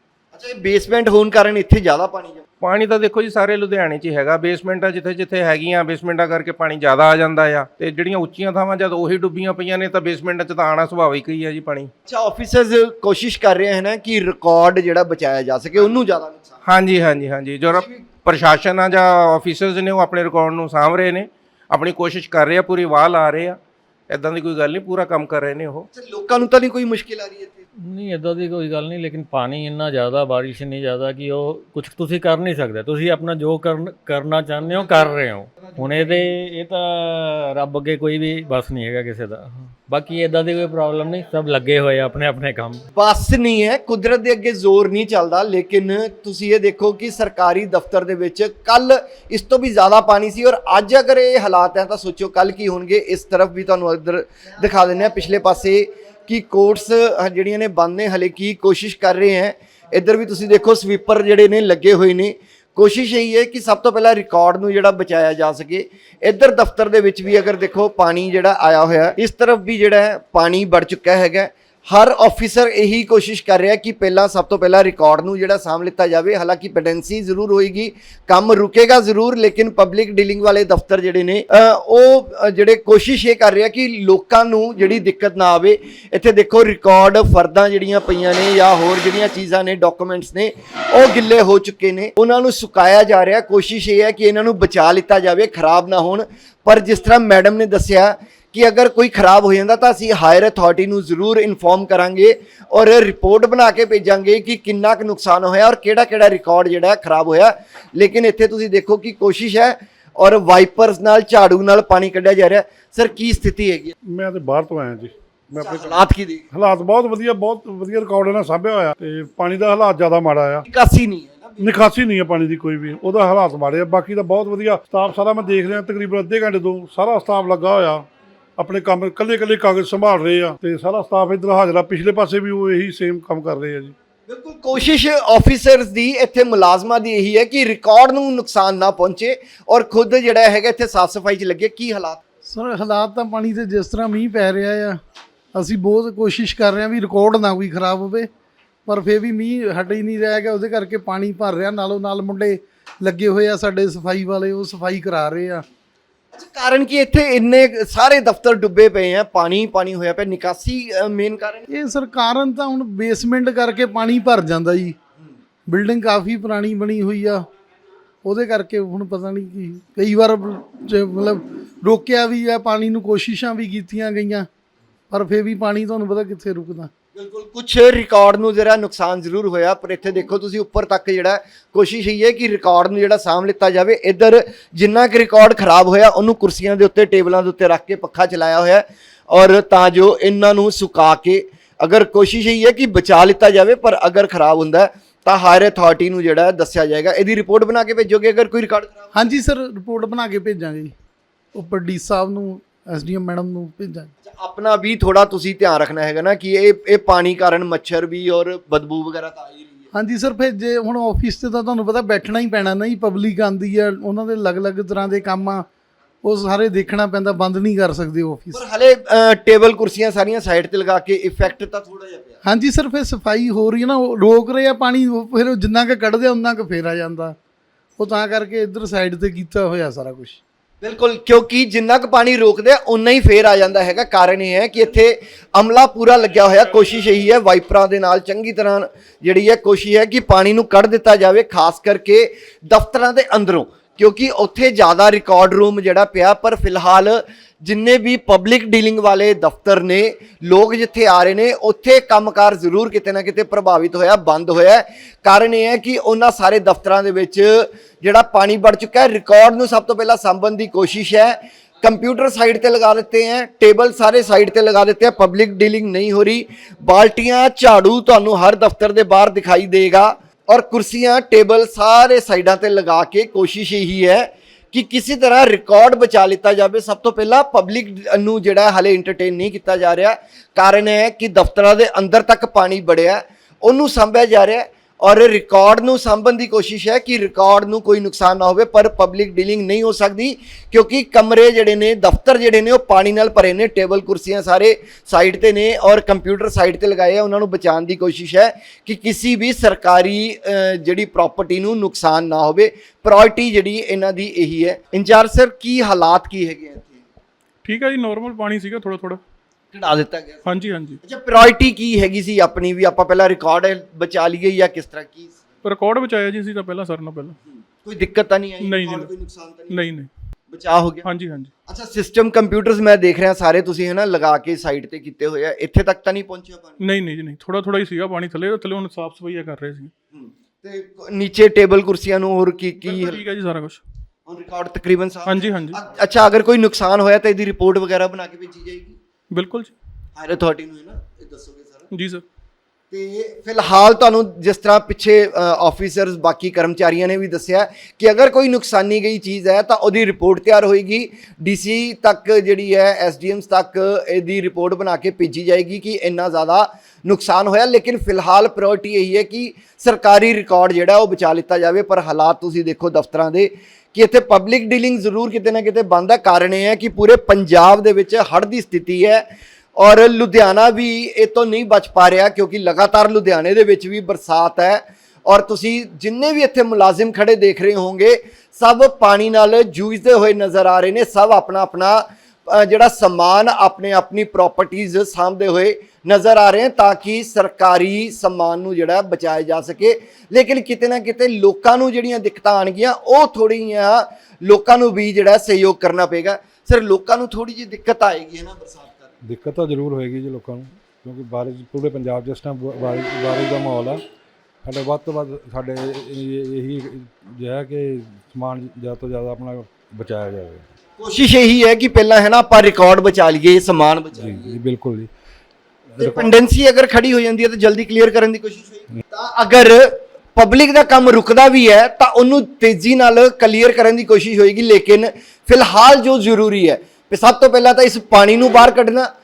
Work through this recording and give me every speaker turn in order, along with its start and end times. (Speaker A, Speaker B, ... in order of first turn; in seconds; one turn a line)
Speaker A: 0.3-2.4
Speaker B: 2.6-11.9
Speaker A: 12.1-16.6
Speaker B: 16.6-23.6
Speaker A: 17.7-18.0
Speaker B: 24.1-25.9
Speaker A: 25.9-27.6
Speaker C: 27.8-42.8
Speaker A: 43.0-113.9
Speaker D: 114.1-116.0
Speaker A: 115.6-116.4
Speaker D: 116.5-120.6
Speaker A: 120.7-121.7
Speaker D: 121.6-128.1
Speaker D: 128.6-133.9
Speaker A: 134.3-142.2
Speaker E: 142.4-145.0
Speaker E: 145.6-148.3
Speaker E: 148.8-155.6
Speaker A: 156.3-161.6
Speaker E: 161.7-165.0
Speaker E: 165.7-167.4
Speaker E: 168.2-174.4
Speaker E: 175.1-176.9
Speaker A: 177.1-199.3
Speaker E: 199.1-200.9
Speaker E: 201.5-204.1
Speaker A: 204.2-209.9
Speaker E: 209.9-215.6
Speaker E: 216.2-218.6
Speaker A: 218.5-222.4
Speaker E: 222.4-227.3
Speaker E: 228.0-230.4
Speaker A: 230.8-307.0
Speaker F: 307.6-309.2
Speaker A: 309.7-310.5
Speaker F: 310.4-311.0
Speaker A: 311.0-315.4
Speaker F: 315.6-317.4
Speaker A: 317.5-319.8
Speaker F: 318.6-319.1
Speaker F: 319.7-320.1
Speaker A: 320.5-321.1
Speaker F: 321.0-321.5
Speaker A: 321.7-326.8
Speaker F: 326.8-329.9
Speaker A: 330.1-333.2
Speaker F: 332.9-333.8
Speaker A: 334.3-339.0
Speaker F: 335.2-335.8
Speaker F: 339.3-339.7
Speaker A: 340.1-341.9
Speaker F: 341.9-342.2
Speaker A: 342.9-369.2
Speaker A: 369.8-399.1
Speaker G: 399.2-404.0
Speaker G: 404.6-410.7
Speaker A: 411.0-414.6
Speaker G: 414.1-415.1
Speaker G: 415.9-416.3
Speaker A: 416.0-429.1